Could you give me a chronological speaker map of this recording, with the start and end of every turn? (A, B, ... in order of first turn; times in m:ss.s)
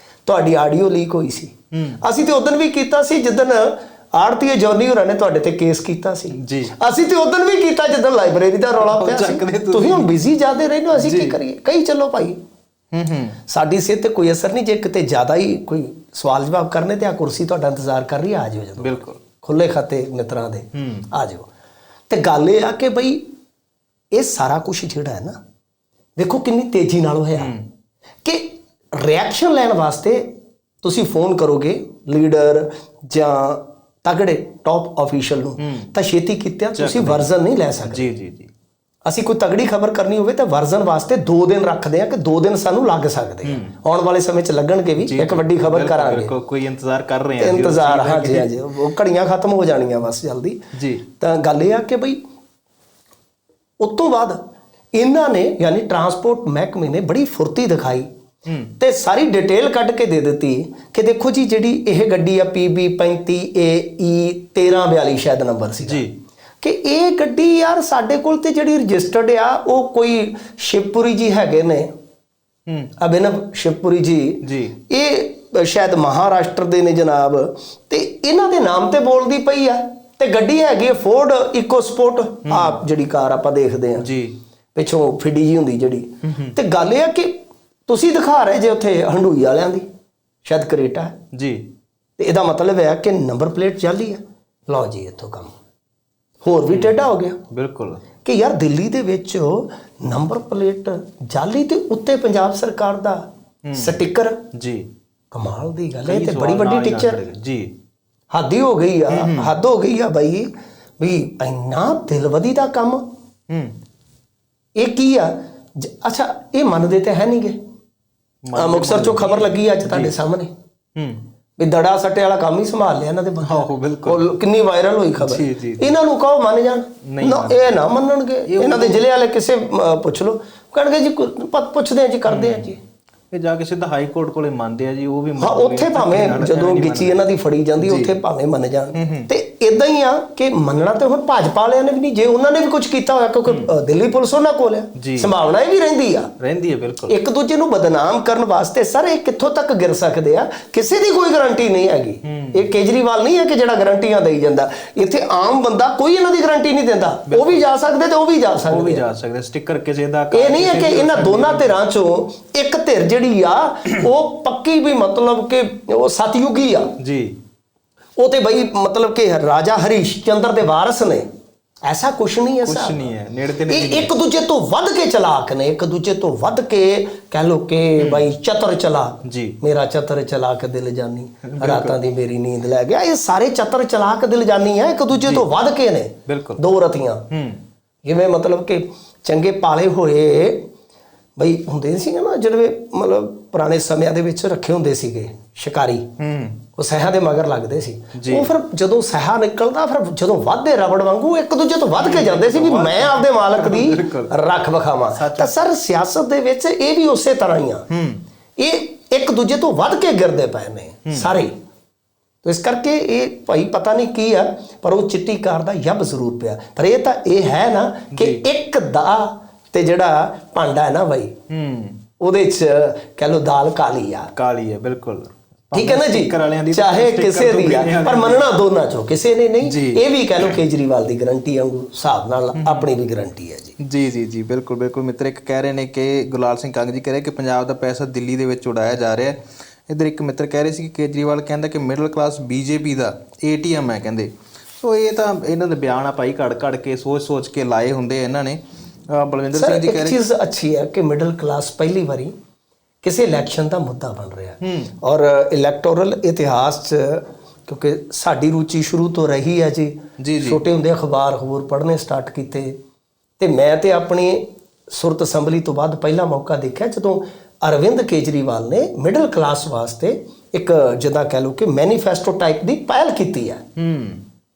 0:00.2-0:12.4 A
0:01.7-0:02.0 B
0:06.3-0:06.7 B
0:08.8-0:10.1 B
0:10.9-0:11.4 B
0:12.9-0:13.4 B
0:13.5-0:21.5 A
0:18.8-0:19.2 B
0:20.7-0:21.1 B
0:22.1-0:23.3 A
0:24.1-0:25.4 A
0:26.2-0:27.5 A
0:27.4-0:27.7 B
0:28.2-0:38.0 A
0:35.6-0:35.9 B
0:36.7-0:37.2 B
0:37.8-0:38.5 B
0:39.0-0:46.3 A
0:43.4-0:43.7 B
0:45.0-0:48.5 B
0:47.4-0:50.6 A
0:50.7-0:51.0 B
0:51.1-0:52.2 A
0:53.8-0:54.4 A
0:54.9-0:58.1 A
0:58.4-0:58.7 B
0:58.8-1:06.0 A
1:05.8-1:06.1 B
1:06.6-1:11.9 A
1:12.7-1:12.9 B
1:13.0-1:24.1 A
1:14.4-1:14.8 B
1:22.5-1:22.8 B
1:24.0-1:24.4 B
1:24.7-1:29.8 A
1:26.2-1:26.6 B
1:30.4-1:31.2 A
1:31.3-1:31.7 B
1:32.2-1:35.5 A
1:36.4-1:37.4 A
1:36.7-1:38.0 B
1:38.2-1:44.4 A
1:43.6-1:44.0 B
1:44.5-1:44.9 B
1:45.3-1:47.2 A
1:46.0-1:47.7 B
1:48.3-1:53.0 A
1:49.1-1:49.5 B
1:53.5-1:53.8 B
1:54.8-1:57.6 A
1:58.4-2:00.1 B
1:58.5-2:00.5 A
2:01.0-2:01.2 B
2:01.6-2:12.8 A
2:03.4-2:04.3 B
2:05.2-2:05.9 B
2:07.0-2:07.7 B
2:08.4-2:09.0 B
2:12.3-2:12.8 B
2:13.3-2:17.3 B
2:15.4-2:26.3 A
2:17.8-2:18.2 B
2:18.9-2:19.3 B
2:23.5-2:23.7 B
2:25.0-2:25.3 B
2:26.4-2:27.2 B
2:27.1-2:39.0 A
2:32.2-2:32.6 B
2:37.3-2:37.6 B
2:38.6-2:41.8 B
2:40.3-2:46.9 A
2:47.0-2:47.4 B
2:48.2-2:51.3 A
2:51.8-2:53.1 A
2:52.6-2:54.1 B
2:53.7-3:07.3 A
2:58.0-2:58.3 B
2:59.2-2:59.6 B
3:01.4-3:02.0 B
3:05.1-3:05.5 B
3:06.3-3:06.6 B
3:07.3-3:07.6 B
3:08.0-3:10.6 A
3:11.4-3:16.1 A
3:16.2-3:16.6 B
3:16.8-3:27.9 A
3:18.1-3:18.5 B
3:22.0-3:24.3 B
3:25.1-3:25.5 B
3:27.9-3:28.2 B
3:28.6-3:31.5 A
3:31.0-3:31.3 B
3:32.4-3:41.3 A
3:38.1-3:38.4 B
3:41.5-3:42.0 B
3:42.2-3:44.3 A
3:44.3-3:48.5 B
3:45.7-3:53.8 A
3:49.6-3:50.6 B
3:52.6-3:52.9 B
3:53.8-4:10.2 B
4:09.5-4:12.3 A
4:13.0-4:22.8 A
4:14.6-4:14.9 B
4:20.2-4:20.6 B
4:23.4-4:33.6 A
4:33.8-4:34.2 B